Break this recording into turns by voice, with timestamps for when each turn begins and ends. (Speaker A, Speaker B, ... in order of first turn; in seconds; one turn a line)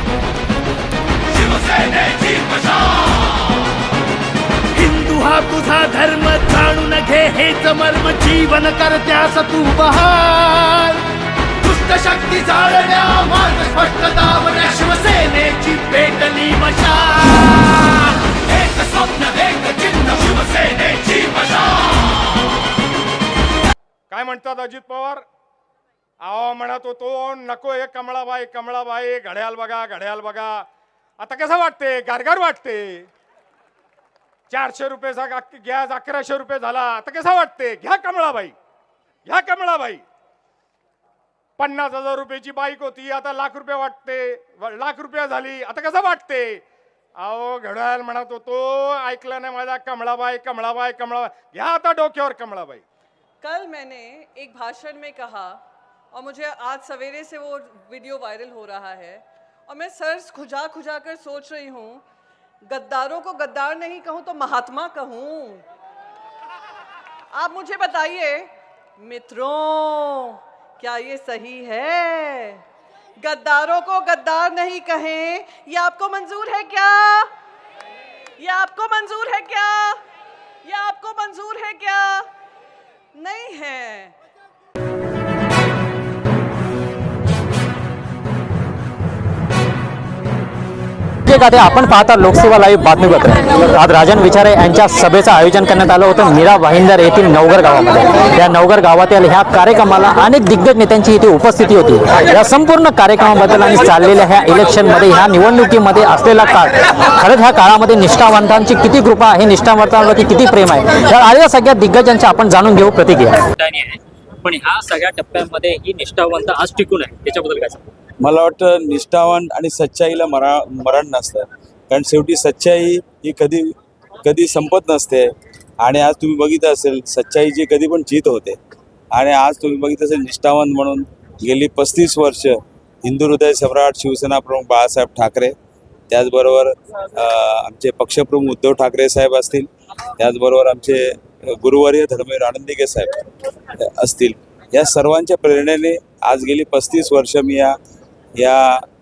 Speaker A: 1.5-2.7
Speaker A: 4.8-11.0
Speaker A: 11.6-21.6
Speaker B: 24.1-25.2
Speaker B: 26.2-30.7
Speaker B: 31.2-33.1
Speaker B: 34.5-38.5
Speaker B: 39.3-40.0
Speaker B: 41.6-46.6
Speaker B: 47.2-52.8
Speaker C: 53.4-55.6
Speaker C: 56.1-62.0
Speaker C: 62.7-65.7
Speaker C: 67.3-72.6
Speaker C: 73.2-77.3
Speaker C: 78.4-80.0
Speaker C: 80.6-82.3
Speaker C: 83.1-84.2
Speaker D: 91.3-113.5
Speaker E: 113.6-117.8
Speaker F: 118.2-125.3
Speaker F: 125.8-128.6
Speaker F: 129.1-135.6
Speaker F: 136.1-143.1
Speaker F: 144.0-147.8
Speaker F: 148.4-148.8